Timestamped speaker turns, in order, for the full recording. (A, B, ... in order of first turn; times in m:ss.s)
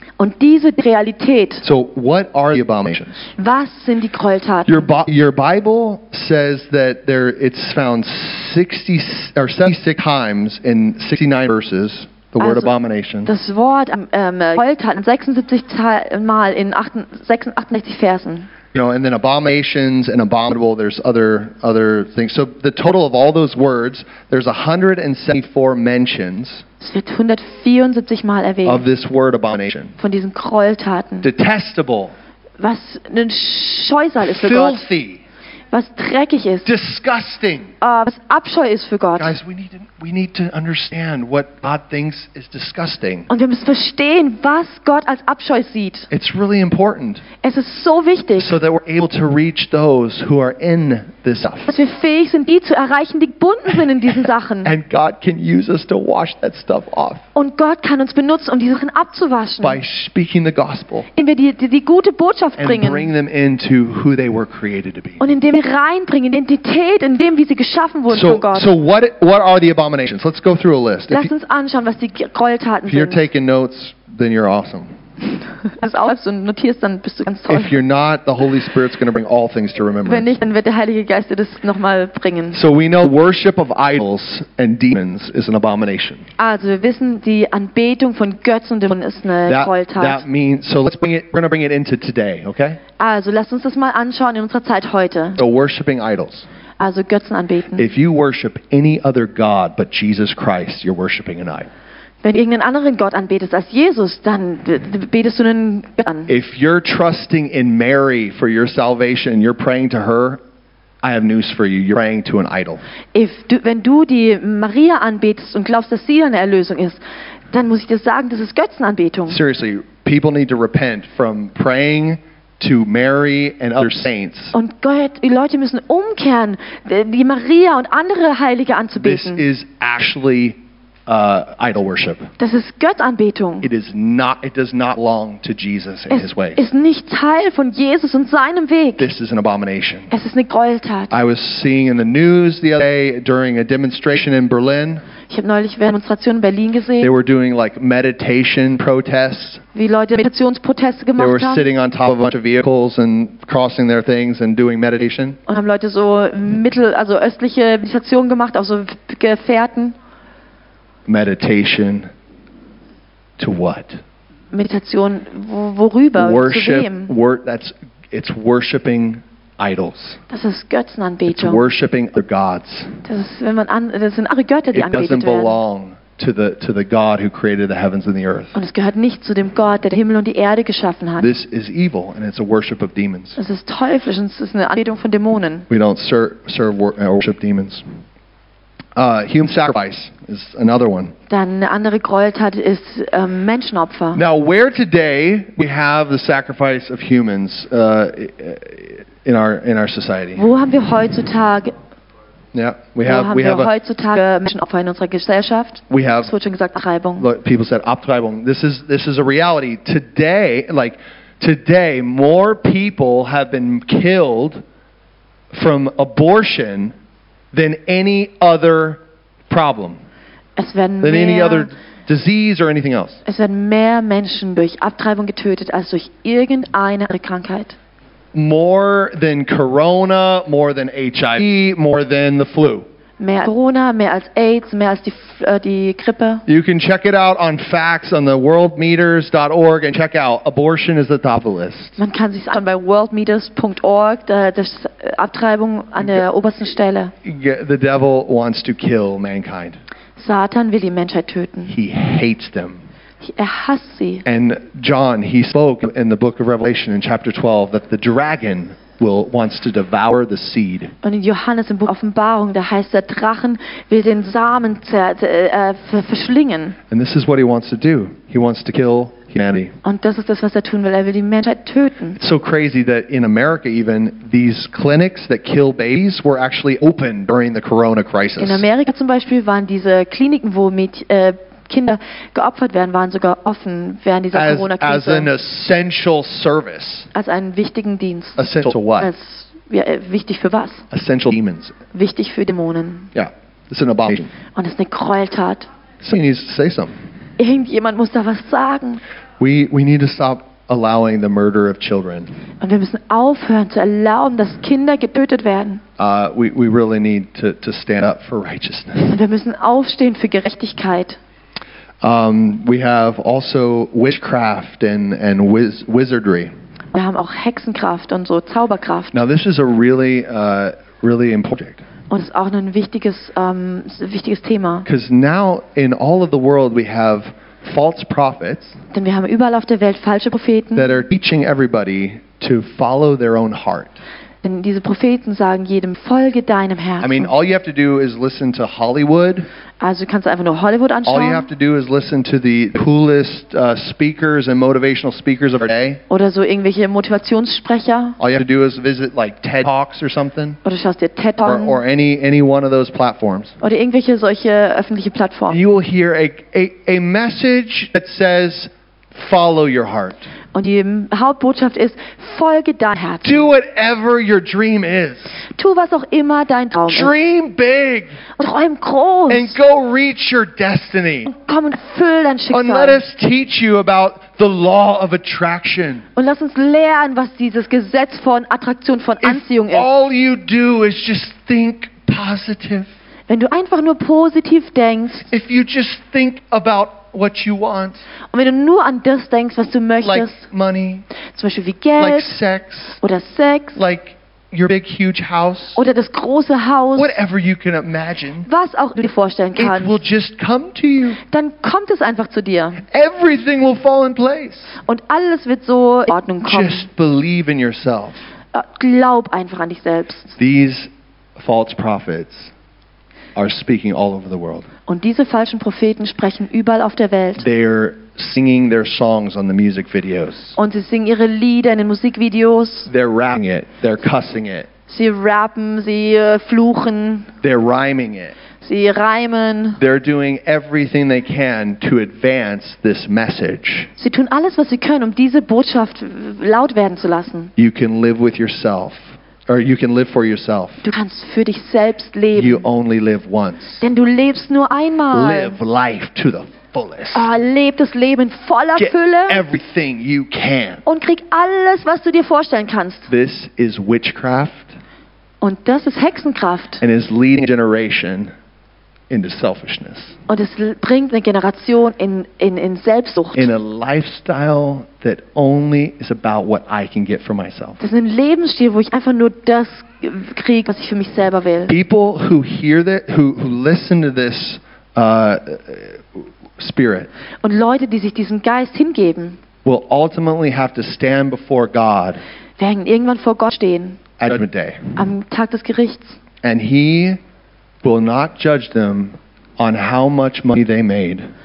0:00.2-0:01.6 A
0:01.6-0:03.3 B
0:03.4-0:04.9 A
0:04.7-0:13.3 B
0:12.4-0:12.7 A
0:13.2-0:18.5 A
0:18.7-0:26.6 B
0:26.8-0:28.8 A
0:28.6-0:30.0 B
0:30.0-0:31.3 A
0:31.2-0:32.1 B
0:32.6-0:34.8 A
0:34.2-0:35.2 B
0:35.7-0:36.7 A
0:36.6-0:37.7 B
0:37.8-0:39.3 A
0:39.2-0:43.3 B
0:43.3-0:46.1 A
0:46.1-0:47.2 B
0:47.4-0:48.5 A
0:48.4-0:51.7 B
0:51.7-0:54.7 A
0:54.6-0:57.2 B
0:57.3-0:59.8 A
0:59.6-1:01.1 B
1:01.1-1:03.1 A
1:02.6-1:05.2 B
1:05.2-1:08.7 A
1:08.1-1:11.3 B
1:11.1-1:13.2 A
1:12.9-1:14.9 B
1:15.7-1:17.8 A
1:17.5-1:20.3 B
1:20.0-1:22.6 A
1:22.5-1:26.3 B
1:26.4-1:30.2 A
1:29.5-1:32.8 B
1:33.0-1:35.4 A
1:35.4-1:36.5 B
1:36.8-1:37.9 A
1:37.8-1:41.7 B
1:42.2-1:46.3 A
1:46.3-1:50.4 B
1:51.0-1:52.8 B
1:53.1-1:57.0 A
1:57.5-1:59.4 A
1:59.3-2:04.5 B
2:04.5-2:09.4 A
2:09.0-2:12.3 B
2:12.4-2:13.7 A
2:13.6-2:16.6 B
2:16.1-2:19.1 A
2:19.0-2:20.1 B
2:20.1-2:21.1 A
2:21.1-2:25.0 B
2:25.3-2:27.1 A
2:27.0-2:29.6 B
2:29.7-2:31.6 A
2:31.2-2:35.4 B
2:35.5-2:40.0 A
2:41.1-2:42.1 B
2:43.4-2:44.0 B
2:44.5-2:47.1 A
2:46.2-2:50.2 B
2:50.3-2:51.6 A
2:51.3-2:53.0 B
2:53.0-2:55.6 A
2:54.7-2:58.5 B
2:58.5-3:01.3 A
3:01.2-3:03.4 B
3:03.4-3:05.6 A
3:05.7-3:07.8 B
3:09.0-3:11.1 B
3:11.3-3:14.2 A
3:14.1-3:20.4 B
3:20.4-3:21.7 A
3:22.5-3:23.7 B
3:23.0-3:27.3 A
3:25.9-3:26.3 B
3:27.2-3:34.6 B
3:35.5-3:36.9 B
3:37.5-3:40.0 B
3:40.6-3:41.7 A
3:41.0-3:43.2 B
3:43.2-3:47.8 A
3:48.3-3:52.8 B
3:53.2-3:56.4 A
3:56.5-4:02.0 B
4:02.0-4:07.1 A
4:07.2-4:09.8 B
4:10.2-4:11.7 A
4:11.7-4:12.8 B
4:13.2-4:14.2 A
4:14.2-4:20.9 B
4:21.0-4:26.8 A
4:26.9-4:29.8 B
4:29.8-4:32.2 A
4:32.2-4:38.6 B
4:38.4-4:45.3 A
4:44.3-4:47.1 B
4:47.1-4:48.4 A
4:48.4-4:49.1 B
4:49.0-4:50.8 A
4:50.9-4:51.8 B
4:51.9-4:53.1 A
4:53.1-4:54.3 B
4:54.5-4:55.7 A
4:56.0-4:56.9 B
4:57.4-4:59.0 A
4:59.4-5:02.3 B
5:02.6-5:05.8 A
5:06.0-5:09.2 B
5:09.0-5:11.2 A
5:12.0-5:16.5 B
5:16.9-5:19.2 A
5:19.1-5:21.8 B
5:22.1-5:24.8 A
5:24.8-5:28.8 B
5:28.9-5:30.9 A
5:30.8-5:34.0 B
5:34.4-5:37.3 A
5:37.0-5:39.5 B
5:39.8-5:41.5 A
5:41.0-5:46.0 B
5:46.1-5:48.2 A
5:48.2-5:50.6 B
5:50.6-5:51.8 A
5:51.4-5:53.6 B
5:53.6-5:55.6 A
5:55.5-6:00.3 B
6:00.5-6:03.5 A
6:03.2-6:05.4 B
6:05.5-6:07.1 A
6:06.9-6:08.2 B
6:08.4-6:09.6 A
6:09.3-6:11.3 B
6:11.2-6:13.0 A
6:12.5-6:16.0 B
6:16.2-6:19.9 A
6:19.2-6:22.9 B
6:23.3-6:25.3 A
6:25.3-6:28.0 B
6:28.3-6:30.4 A
6:30.0-6:31.0 B
6:31.3-6:32.3 A
6:32.0-6:33.0 B
6:33.0-6:33.8 A
6:33.8-6:35.8 B
6:35.7-6:37.2 A
6:37.0-6:38.5 B
6:38.4-6:40.0 A
6:39.6-6:41.2 B
6:41.2-6:42.8 A
6:42.9-6:44.8 B
6:44.8-6:46.9 A
6:46.4-6:48.3 B
6:48.5-6:50.4 A
6:50.4-6:52.5 B
6:53.4-6:54.7 B
6:54.9-6:57.4 A
6:57.4-7:00.6 B
7:00.6-7:02.9 A
7:02.9-7:04.7 B
7:04.9-7:07.3 A
7:07.4-7:08.4 B
7:08.6-7:09.8 A
7:09.8-7:13.9 B
7:14.0-7:17.5 A
7:17.6-7:20.8 B
7:20.8-7:22.6 A
7:22.3-7:23.8 B
7:23.8-7:25.6 A
7:25.1-7:27.3 B
7:27.1-7:29.4 A
7:28.8-7:30.8 B
7:30.8-7:33.1 A
7:33.1-7:34.8 B
7:35.4-7:36.8 A
7:36.8-7:38.3 B
7:39.1-7:40.2 B
7:40.3-7:43.5 A
7:43.3-7:47.8 B
7:47.8-7:51.7 A
7:51.7-7:57.1 B
7:57.4-7:59.4 A
7:59.6-8:02.2 B
8:02.6-8:04.0 A
8:04.2-8:05.0 B
8:05.0-8:06.2 A
8:06.4-8:07.2 B
8:07.8-8:11.3 B